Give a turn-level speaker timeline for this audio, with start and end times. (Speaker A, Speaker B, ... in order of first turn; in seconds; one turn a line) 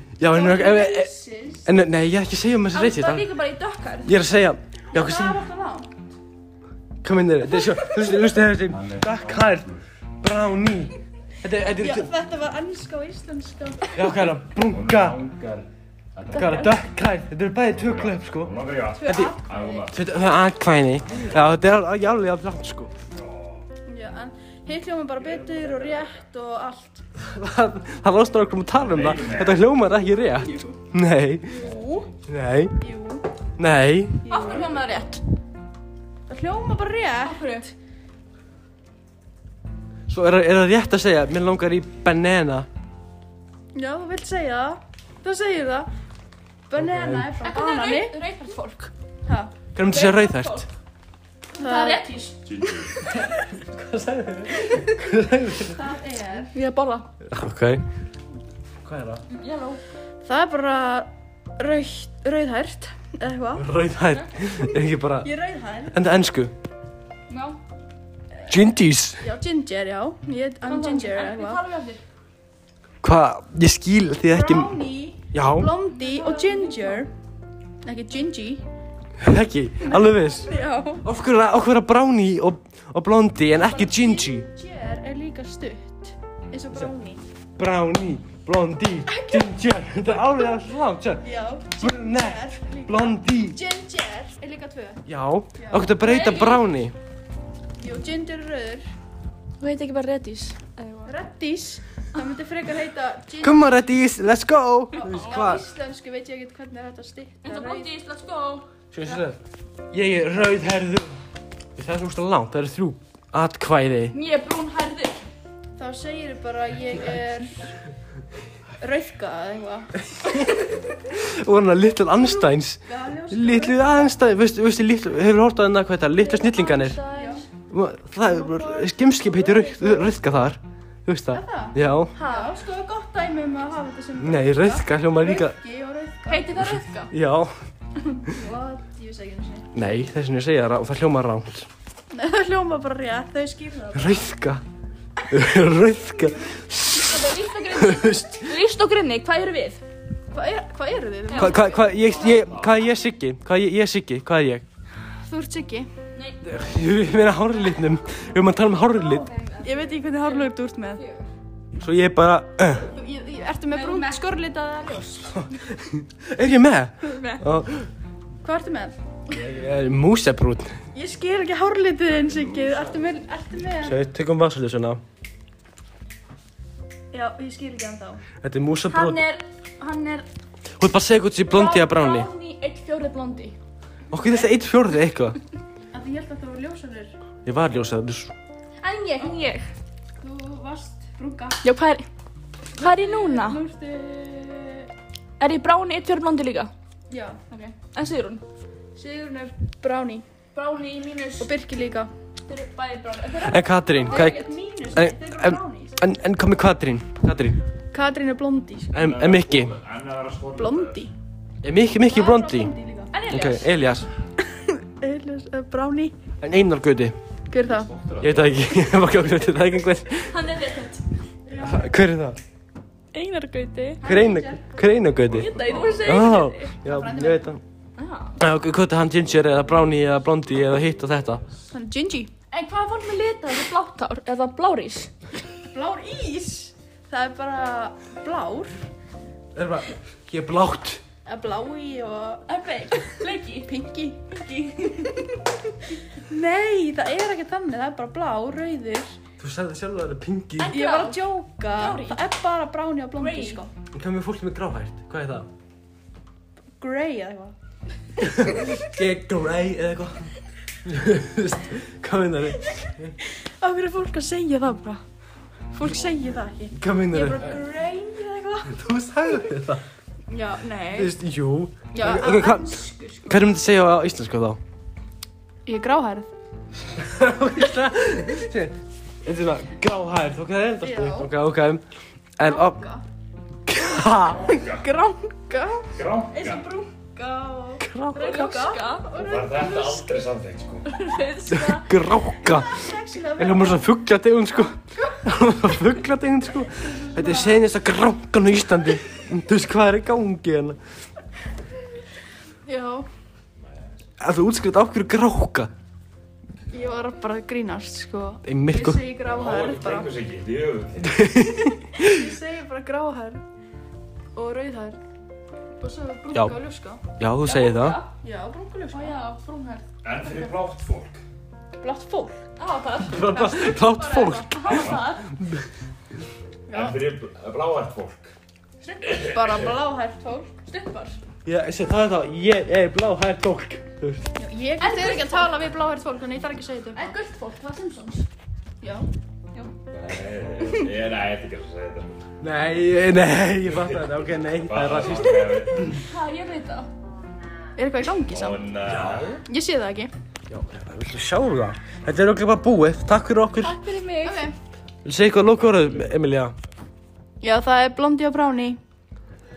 Speaker A: 0.2-1.1
Speaker B: 0.2-1.7
Speaker A: 1.6-3.3
Speaker C: 2.7-4.2
Speaker A: 4.0-5.4
Speaker B: 4.9-5.9
Speaker A: 7.0-12.1
Speaker D: 8.6-9.7
Speaker B: 11.8-14.0
Speaker A: 13.9-15.2
Speaker D: 14.6-16.9
Speaker A: 16.3-22.9
Speaker C: 16.3-16.7
Speaker D: 17.7-20.2
Speaker B: 18.9-19.9
Speaker D: 21.1-21.4
Speaker D: 23.1-23.7
Speaker B: 23.9-27.1
Speaker D: 25.2-26.1
Speaker A: 27.2-31.6
Speaker D: 28.7-29.6
Speaker C: 31.5-32.1
Speaker D: 31.6-32.1
Speaker B: 31.6-32.0
Speaker A: 32.3-32.8
Speaker B: 32.8-33.3
Speaker A: 33.6-34.5
Speaker B: 34.2-35.1
Speaker C: 34.3-35.2
Speaker B: 36.3-37.7
Speaker C: 37.2-37.7
Speaker A: 40.1-42.7
Speaker B: 43.7-45.9
Speaker B: 46.7-48.2
Speaker A: 46.8-47.3
Speaker C: 47.4-48.9
Speaker B: 49.3-49.5
Speaker A: 49.8-50.7
Speaker C: 49.8-50.7
Speaker C: 51.5-52.4
Speaker B: 51.6-52.0
Speaker D: 52.5-52.9
Speaker B: 52.6-53.5
Speaker A: 53.2-55.9
Speaker B: 55.7-56.5
Speaker C: 56.5-57.1
Speaker A: 57.2-57.8
Speaker A: 58.8-59.2
Speaker C: 59.3-59.8
Speaker B: 60.2-63.7
Speaker A: 63.5-65.3
Speaker B: 65.2-66.0
Speaker A: 65.9-66.5
Speaker C: 67.3-67.6
Speaker A: 68.5-69.2
Speaker B: 69.2-71.6
Speaker C: 70.6-72.0
Speaker A: 73.0-74.8
Speaker B: 74.3-77.1
Speaker A: 75.3-75.8
Speaker C: 75.9-77.1
Speaker B: 77.8-78.6
Speaker A: 79.2-80.5
Speaker B: 79.8-81.1
Speaker A: 81.0-84.5
Speaker B: 83.6-87.2
Speaker A: 87.6-91.2
Speaker B: 89.1-89.5
Speaker B: 91.2-95.0
Speaker A: 91.8-93.6
Speaker A: 95.1-97.0
Speaker B: 95.6-96.6
Speaker C: 96.0-96.5
Speaker B: 97.8-98.9
Speaker C: 99.6-101.1
Speaker B: 101.1-103.9
Speaker A: 103.4-105.7
Speaker B: 104.9-107.9
Speaker C: 107.4-108.7
Speaker A: 108.9-109.4
Speaker A: 109.9-111.2
Speaker A: 111.8-114.2
Speaker C: 114.1-115.2
Speaker B: 115.8-117.7
Speaker B: 118.8-120.4
Speaker A: 121.0-127.0
Speaker B: 122.8-124.1
Speaker C: 126.2-127.5
Speaker B: 127.1-127.4
Speaker A: 127.7-132.2
Speaker B: 128.2-130.2
Speaker B: 131.3-136.7
Speaker C: 132.2-132.5
Speaker A: 134.2-135.6
Speaker C: 136.3-137.1
Speaker A: 137.1-137.5
Speaker B: 138.0-139.7
Speaker A: 139.7-141.7
Speaker B: 142.1-144.3
Speaker A: 143.9-144.6
Speaker A: 145.3-148.4
Speaker C: 146.9-149.8
Speaker B: 150.3-152.0
Speaker C: 151.3-152.4
Speaker A: 151.4-154.6
Speaker D: 151.9-152.8
Speaker B: 155.2-155.9
Speaker C: 156.2-156.4
Speaker A: 156.4-159.3
Speaker C: 158.8-161.3
Speaker B: 159.6-161.0
Speaker A: 161.8-162.9
Speaker B: 162.9-165.4
Speaker C: 163.7-164.3
Speaker A: 165.3-167.9
Speaker C: 167.1-167.4
Speaker B: 168.4-169.0
Speaker A: 169.3-170.8
Speaker B: 170.9-174.0
Speaker A: 173.8-175.0
Speaker B: 177.1-178.2
Speaker A: 178.4-179.2
Speaker C: 178.9-179.4
Speaker B: 179.8-180.2
Speaker A: 180.8-182.3
Speaker C: 181.5-183.6
Speaker A: 184.1-185.4
Speaker B: 185.9-187.1
Speaker A: 187.4-188.3
Speaker C: 188.8-189.7
Speaker B: 190.2-191.6
Speaker C: 191.6-192.1
Speaker C: 192.7-193.6
Speaker B: 192.8-194.9
Speaker C: 195.4-196.7
Speaker B: 197.1-197.4
Speaker C: 197.5-198.4
Speaker B: 198.9-200.2
Speaker C: 200.5-201.5
Speaker B: 201.4-202.1
Speaker C: 202.5-204.5
Speaker A: 203.3-207.6
Speaker B: 204.0-206.0
Speaker B: 207.9-209.0
Speaker A: 208.9-209.8
Speaker D: 208.9-211.0
Speaker B: 210.6-211.1
Speaker A: 211.6-212.7
Speaker B: 212.1-213.2
Speaker C: 213.1-213.7
Speaker A: 213.3-214.1
Speaker B: 214.5-216.2
Speaker A: 216.4-217.2
Speaker B: 217.5-217.9
Speaker D: 217.7-218.9
Speaker A: 218.2-220.4
Speaker C: 220.3-221.1
Speaker B: 221.5-221.9
Speaker A: 221.6-222.4
Speaker C: 223.2-224.1
Speaker B: 223.4-224.6
Speaker A: 224.0-227.6
Speaker D: 225.2-226.3
Speaker C: 225.3-226.7
Speaker B: 226.8-227.5
Speaker C: 228.0-228.4
Speaker A: 228.4-231.4
Speaker B: 231.7-232.3
Speaker C: 232.5-235.1
Speaker B: 235.7-238.7
Speaker A: 239.5-241.0
Speaker B: 241.2-249.2
Speaker C: 242.5-243.7
Speaker A: 249.4-250.8
Speaker C: 250.6-252.3
Speaker B: 250.7-253.7
Speaker C: 253.2-253.6
Speaker A: 253.9-255.5
Speaker B: 256.8-257.5
Speaker A: 258.2-260.3
Speaker A: 260.8-263.1
Speaker B: 263.5-265.0
Speaker B: 265.7-268.8
Speaker A: 266.8-267.6
Speaker A: 268.7-269.8
Speaker B: 270.3-271.1
Speaker A: 270.9-274.6
Speaker B: 271.9-273.5
Speaker B: 275.7-276.3
Speaker A: 277.0-281.8
Speaker B: 280.8-281.3
Speaker A: 282.4-282.8
Speaker B: 282.4-283.1
Speaker A: 283.7-284.6
Speaker B: 284.2-290.2
Speaker D: 284.5-284.9
Speaker D: 285.9-286.6
Speaker A: 287.8-288.5
Speaker C: 288.1-289.2
Speaker D: 289.1-290.9
Speaker C: 290.9-292.0
Speaker A: 291.5-292.9
Speaker B: 292.1-293.9
Speaker A: 293.4-300.8
Speaker B: 296.8-297.7
Speaker B: 302.6-303.1
Speaker A: 304.2-305.7
Speaker B: 306.7-310.1
Speaker A: 308.4-309.1
Speaker D: 309.3-311.3
Speaker A: 311.0-311.8
Speaker B: 311.7-313.4
Speaker B: 314.4-315.0
Speaker B: 315.8-317.0
Speaker A: 317.1-318.0
Speaker C: 317.4-318.1
Speaker B: 318.2-319.2
Speaker C: 318.9-320.5
Speaker D: 320.0-321.2
Speaker B: 321.8-322.4
Speaker C: 322.6-325.3
Speaker A: 323.1-325.6
Speaker D: 324.6-325.2
Speaker B: 326.7-327.1
Speaker D: 326.7-328.3
Speaker C: 328.8-329.2
Speaker B: 329.0-330.6
Speaker C: 330.7-331.2
Speaker A: 331.5-334.3
Speaker B: 334.4-337.1
Speaker C: 334.8-335.6
Speaker C: 336.9-338.3
Speaker B: 338.8-339.1
Speaker D: 339.9-342.3
Speaker A: 342.4-345.7
Speaker D: 344.6-346.0
Speaker C: 345.2-346.9
Speaker B: 347.8-348.7
Speaker D: 348.3-349.4
Speaker B: 349.4-350.1
Speaker A: 350.5-353.8
Speaker C: 353.6-354.5
Speaker B: 354.2-354.6
Speaker A: 355.1-356.6
Speaker B: 357.4-358.8